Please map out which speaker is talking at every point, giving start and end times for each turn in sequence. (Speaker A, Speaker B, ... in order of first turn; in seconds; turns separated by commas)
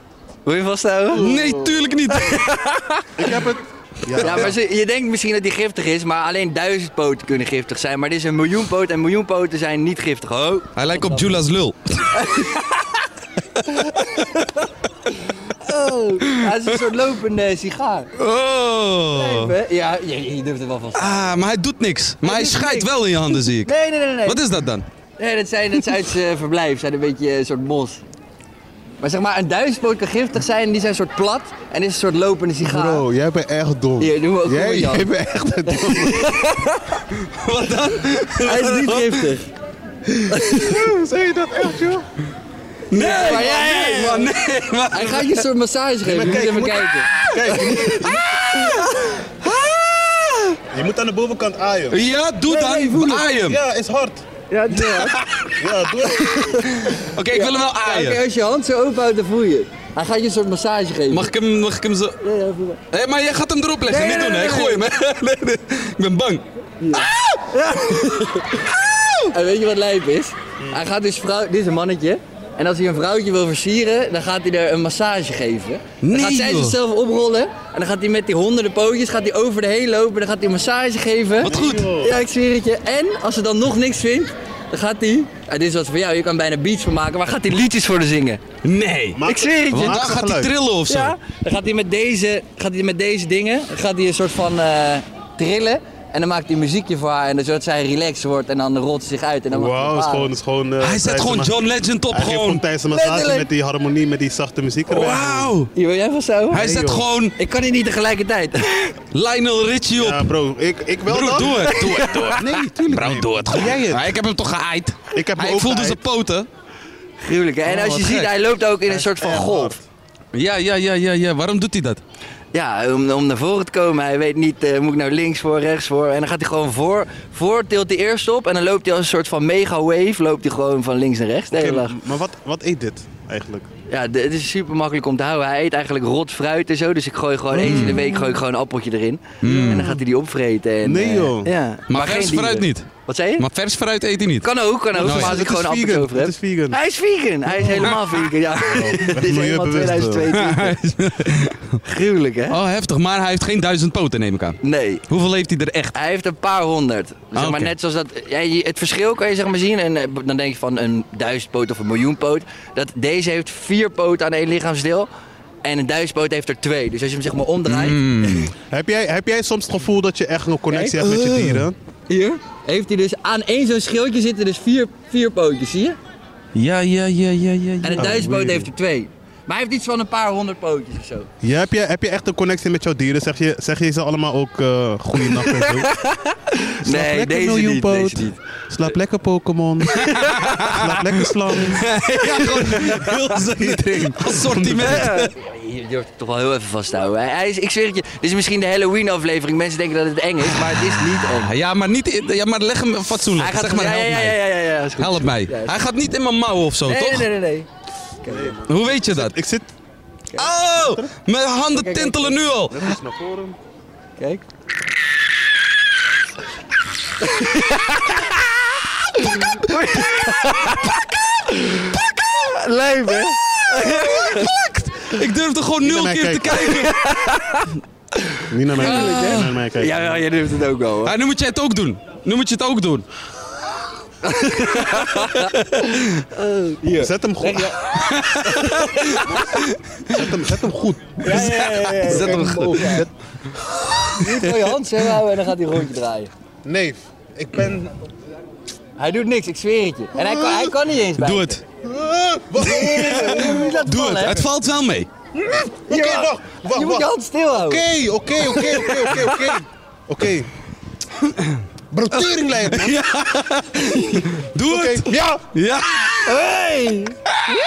Speaker A: 0.5-1.3, Speaker B: 1.1-2.3, Speaker C: 1.1-1.8, Speaker A: 2.1-3.3, Speaker C: 3.2-4.6, Speaker A: 4.1-11.3, Speaker B: 10.8-12.2, Speaker A: 12.1-12.7, Speaker A: 15.6-18.1, Speaker B: 16.2-16.6, Speaker B: 18.1-19.5, Speaker A: 19.1-21.2, Speaker B: 20.9-23.7, Speaker A: 22.2-24.4, Speaker B: 24.2-24.9, Speaker A: 25.2-28.0, Speaker A: 29.0-33.0, Speaker C: 32.6-36.3, Speaker A: 34.0-35.1, Speaker A: 35.7-36.9, Speaker B: 37.3-39.2, Speaker A: 38.4-39.5, Speaker A: 40.3-40.9, Speaker C: 40.5-42.1, Speaker B: 42.9-45.4, Speaker A: 42.9-44.3, Speaker C: 43.3-43.9, Speaker A: 44.9-48.0, Speaker C: 46.0-48.7, Speaker B: 47.1-48.9, Speaker B: 49.5-50.1, Speaker C: 50.7-52.0, Speaker B: 51.9-53.6, Speaker A: 52.5-53.3, Speaker C: 53.3-54.2, Speaker A: 54.5-55.2, Speaker C: 55.6-56.7, Speaker A: 56.2-56.5, Speaker B: 56.7-58.2, Speaker A: 57.3-61.3, Speaker B: 61.1-62.2, Speaker A: 62.2-62.8, Speaker B: 62.9-66.4, Speaker A: 63.9-64.8, Speaker A: 66.8-68.5, Speaker B: 66.9-67.5, Speaker B: 68.7-69.3, Speaker A: 69.3-88.4, Speaker B: 76.0-76.8, Speaker B: 81.4-81.9, Speaker C: 81.4-82.1, Speaker B: 88.6-91.2, Speaker C: 89.2-90.5, Speaker A: 89.2-90.0, Speaker A: 90.9-100.3, Speaker C: 99.5-101.6, Speaker B: 100.8-102.7, Speaker C: 102.1-105.5, Speaker A: 102.9-103.5, Speaker B: 104.9-105.7, Speaker A: 105.7-106.6, Speaker B: 106.5-107.3, Speaker C: 106.5-107.0, Speaker A: 107.4-108.9, Speaker B: 109.1-110.3, Speaker C: 110.0-111.8, Speaker B: 111.1-116.5, Speaker A: 111.5-112.4, Speaker C: 112.3-114.1, Speaker C: 115.1-116.0, Speaker A: 117.2-119.8, Speaker C: 117.7-118.0, Speaker B: 117.8-118.3, Speaker C: 118.8-119.8, Speaker B: 120.3-122.0, Speaker A: 122.5-131.9, Speaker C: 131.5-133.7, Speaker A: 133.9-143.4, Speaker C: 137.5-138.3, Speaker B: 137.6-138.0, Speaker B: 139.4-139.9, Speaker C: 139.4-140.0, Speaker C: 140.8-141.5, Speaker B: 141.9-145.4, Speaker A: 144.4-150.8, Speaker C: 144.9-146.8, Speaker C: 147.5-148.0, Speaker C: 148.6-150.4, Speaker B: 150.3-151.8, Speaker A: 151.8-152.6, Speaker B: 152.5-155.9, Speaker A: 154.6-155.0, Speaker A: 155.9-165.1, Speaker B: 157.3-157.7, Speaker A: 165.6-168.5, Speaker B: 167.7-168.5, Speaker C: 168.7-171.8, Speaker A: 170.7-171.4, Speaker A: 172.1-176.0, Speaker B: 176.5-178.3, Speaker A: 177.8-181.3, Speaker C: 178.0-178.7, Speaker C: 181.4-185.9, Speaker A: 185.2-188.4, Speaker C: 186.8-191.9, Speaker A: 190.0-190.4, Speaker B: 190.2-191.0, Speaker B: 191.7-195.3, Speaker A: 192.6-193.2, Speaker C: 193.6-195.0, Speaker A: 194.8-201.5, Speaker B: 201.2-204.4, Speaker A: 203.4-205.8, Speaker B: 205.0-207.3, Speaker A: 206.8-207.7, Speaker A: 208.2-208.6, Speaker C: 208.2-209.7, Speaker B: 208.7-209.4, Speaker B: 210.3-212.8, Speaker A: 211.8-212.4, Speaker C: 212.7-213.6, Speaker A: 217.2-218.4, Speaker A: 219.2-221.0, Speaker A: 221.5-224.5, Speaker B: 223.7-226.9, Speaker C: 225.8-226.8, Speaker A: 226.6-227.7, Speaker C: 228.5-230.2, Speaker A: 228.7-231.1, Speaker B: 228.8-229.4, Speaker B: 231.0-233.0, Speaker A: 234.2-235.5, Speaker A: 236.3-237.9, Speaker C: 237.0-237.8, Speaker B: 238.0-240.2, Speaker A: 238.4-239.5, Speaker C: 239.3-239.5, Speaker C: 240.1-241.4, Speaker B: 241.2-243.0, Speaker A: 241.2-243.1, Speaker C: 242.1-243.1, Speaker B: 243.9-244.7, Speaker A: 244.2-246.3, Speaker C: 246.6-248.0, Speaker A: 249.0-251.6, Speaker C: 250.2-250.8, Speaker B: 251.2-251.6, Speaker C: 251.8-254.4, Speaker A: 252.6-254.4, Speaker B: 252.8-255.1, Speaker A: 255.4-257.9, Speaker C: 255.9-260.5, Speaker A: 258.4-259.6, Speaker C: 261.9-263.1, Speaker B: 262.7-266.3, Speaker C: 264.7-265.5, Speaker A: 266.2-267.1